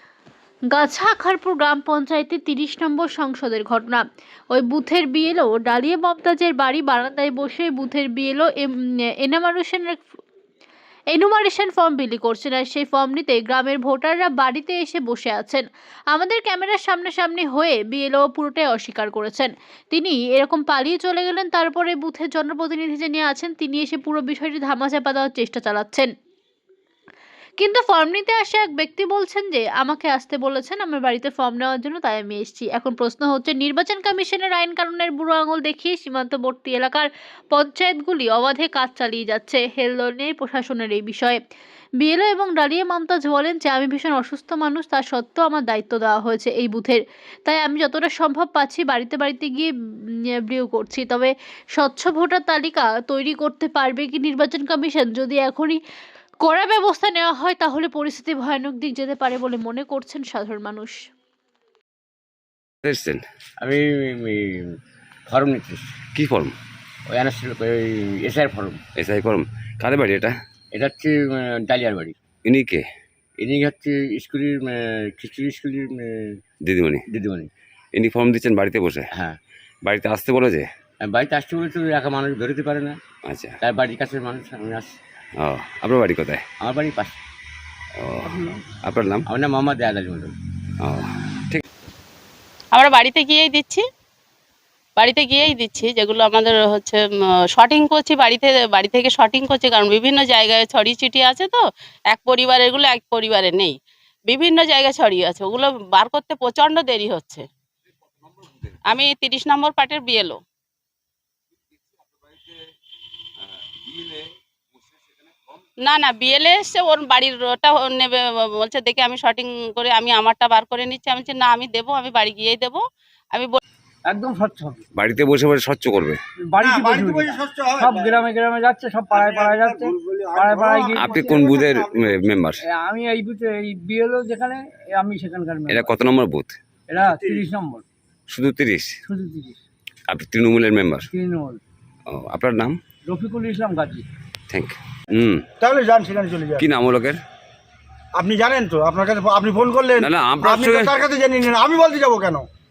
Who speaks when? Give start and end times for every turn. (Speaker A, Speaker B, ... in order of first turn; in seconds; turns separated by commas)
Speaker A: 0.7-8.7, Speaker A: 9.2-10.0, Speaker A: 11.1-26.1, Speaker A: 27.6-41.4, Speaker A: 42.0-49.7, Speaker A: 50.4-55.8, Speaker A: 56.4-61.0, Speaker B: 62.8-63.2, Speaker C: 63.6-64.3, Speaker C: 65.3-65.8, Speaker B: 66.2-66.5, Speaker C: 67.1-68.8, Speaker B: 69.0-70.4, Speaker C: 70.8-71.1, Speaker C: 71.7-72.1, Speaker B: 72.5-72.8, Speaker C: 73.4-74.7, Speaker C: 75.2-76.0, Speaker B: 76.6-77.0, Speaker C: 77.1-77.5, Speaker B: 78.0-79.1, Speaker B: 79.8-80.7, Speaker C: 81.1-82.9, Speaker B: 83.2-83.6, Speaker C: 83.6-84.8, Speaker B: 85.4-86.4, Speaker C: 86.7-87.1, Speaker B: 88.0-89.3, Speaker C: 89.3-90.3, Speaker B: 90.8-91.7, Speaker D: 92.7-93.8, Speaker D: 95.0-97.0, Speaker D: 97.5-103.8, Speaker D: 104.3-107.5, Speaker D: 108.9-110.4, Speaker B: 113.9-114.3, Speaker D: 115.8-122.8, Speaker D: 123.3-123.6, Speaker E: 124.1-124.8, Speaker B: 125.0-126.2, Speaker E: 126.5-131.2, Speaker F: 126.6-128.2, Speaker F: 129.1-132.3, Speaker B: 131.0-132.6, Speaker E: 132.6-135.9, Speaker B: 135.7-136.6, Speaker E: 136.9-137.8, Speaker F: 137.1-137.5, Speaker B: 138.3-139.0, Speaker E: 139.1-139.6, Speaker B: 140.1-141.1, Speaker E: 141.1-141.6, Speaker B: 142.1-142.8, Speaker E: 143.1-144.1, Speaker B: 144.5-145.4, Speaker F: 145.6-146.7, Speaker B: 146.6-147.2, Speaker F: 148.2-152.5, Speaker B: 150.0-150.9